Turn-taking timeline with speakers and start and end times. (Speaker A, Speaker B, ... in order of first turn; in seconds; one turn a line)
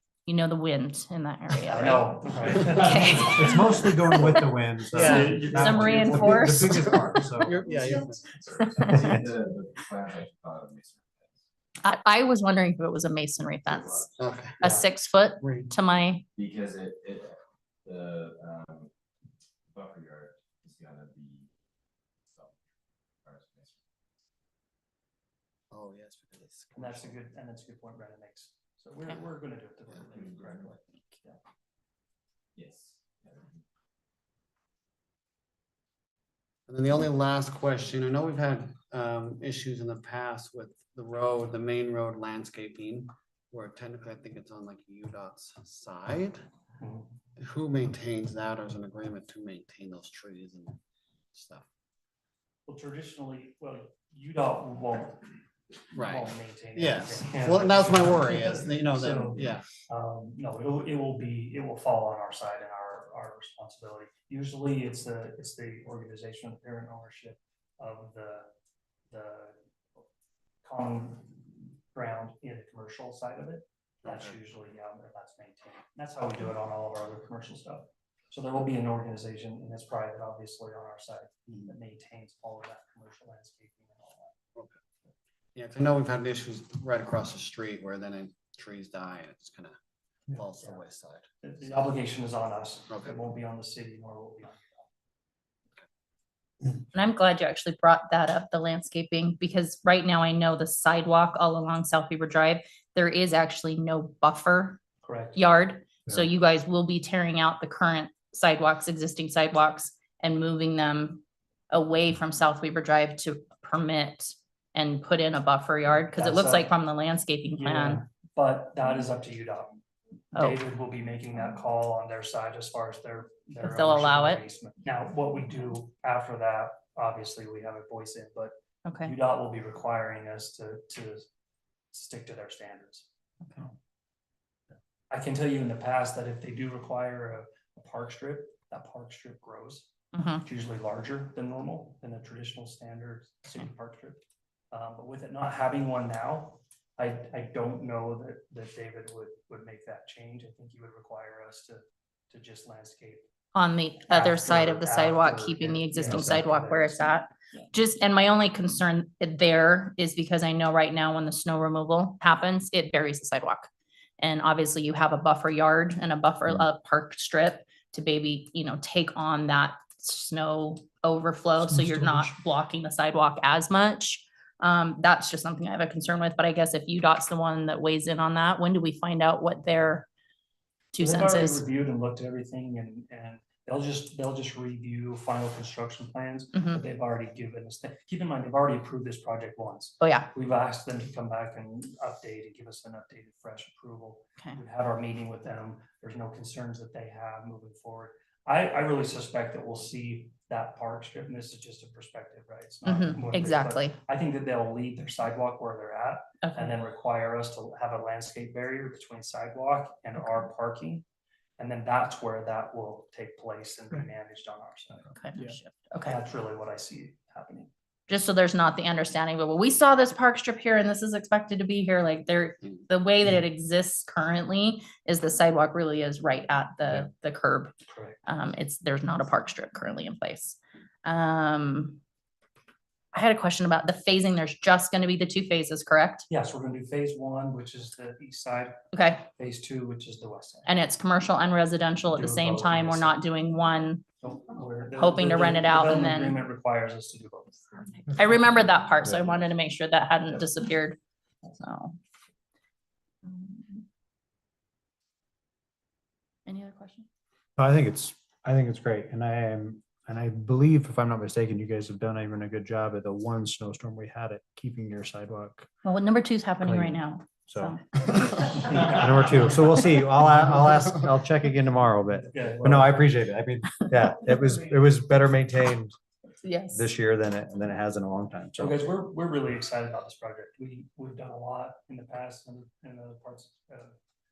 Speaker A: 0.3-7.0
Speaker B: 1.7-3.8
Speaker C: 3.0-7.8
Speaker D: 4.9-5.5
Speaker B: 5.0-6.5
Speaker D: 6.4-8.2
Speaker E: 7.5-11.4
Speaker A: 8.8-9.2
Speaker C: 8.9-9.2
Speaker A: 11.8-16.2
Speaker E: 13.7-14.1
Speaker D: 14.2-14.8
Speaker D: 15.4-15.7
Speaker E: 16.3-18.9
Speaker E: 19.7-21.5
Speaker E: 22.3-22.6
Speaker E: 23.2-23.8
Speaker D: 25.7-27.2
Speaker B: 26.8-31.4
Speaker E: 30.1-30.6
Speaker E: 32.5-33.6
Speaker D: 36.7-46.4
Speaker B: 46.8-47.0
Speaker D: 47.4-50.8
Speaker D: 51.3-51.6
Speaker B: 52.7-55.3
Speaker D: 55.9-59.7
Speaker B: 56.0-68.5
Speaker B: 69.1-69.6
Speaker B: 70.6-84.3
Speaker D: 74.0-74.3
Speaker D: 85.5-89.7
Speaker D: 90.3-91.8
Speaker B: 91.4-94.9
Speaker D: 92.9-93.2
Speaker A: 96.9-104.8
Speaker B: 105.0-105.4
Speaker A: 105.3-118.0
Speaker B: 116.1-116.7
Speaker B: 117.5-119.8
Speaker A: 120.3-120.6
Speaker B: 120.3-131.2
Speaker A: 123.6-124.4
Speaker A: 128.8-129.1
Speaker B: 131.9-133.1
Speaker A: 133.4-133.7
Speaker B: 135.1-139.9
Speaker A: 140.1-140.4
Speaker B: 140.4-153.3
Speaker A: 153.5-180.1
Speaker B: 154.1-157.6
Speaker B: 171.7-172.3
Speaker A: 180.9-181.6
Speaker B: 181.0-211.0
Speaker A: 186.5-186.8
Speaker A: 190.0-190.3
Speaker A: 202.8-204.0
Speaker A: 206.4-206.7
Speaker B: 211.6-215.1
Speaker A: 215.1-216.2
Speaker B: 216.0-217.7
Speaker A: 218.1-227.7
Speaker B: 227.9-228.2
Speaker A: 228.2-232.0
Speaker A: 233.1-236.2
Speaker B: 236.3-238.8
Speaker A: 238.9-239.2
Speaker B: 239.3-240.7
Speaker A: 240.7-244.0
Speaker B: 242.1-243.2
Speaker B: 244.2-248.1
Speaker A: 244.9-246.4
Speaker A: 248.0-251.9
Speaker A: 253.2-253.8
Speaker A: 256.4-257.1
Speaker C: 257.6-265.7
Speaker A: 265.8-268.8
Speaker C: 266.6-275.9
Speaker B: 272.3-273.1
Speaker A: 276.4-276.9
Speaker C: 276.7-278.9
Speaker B: 278.6-283.9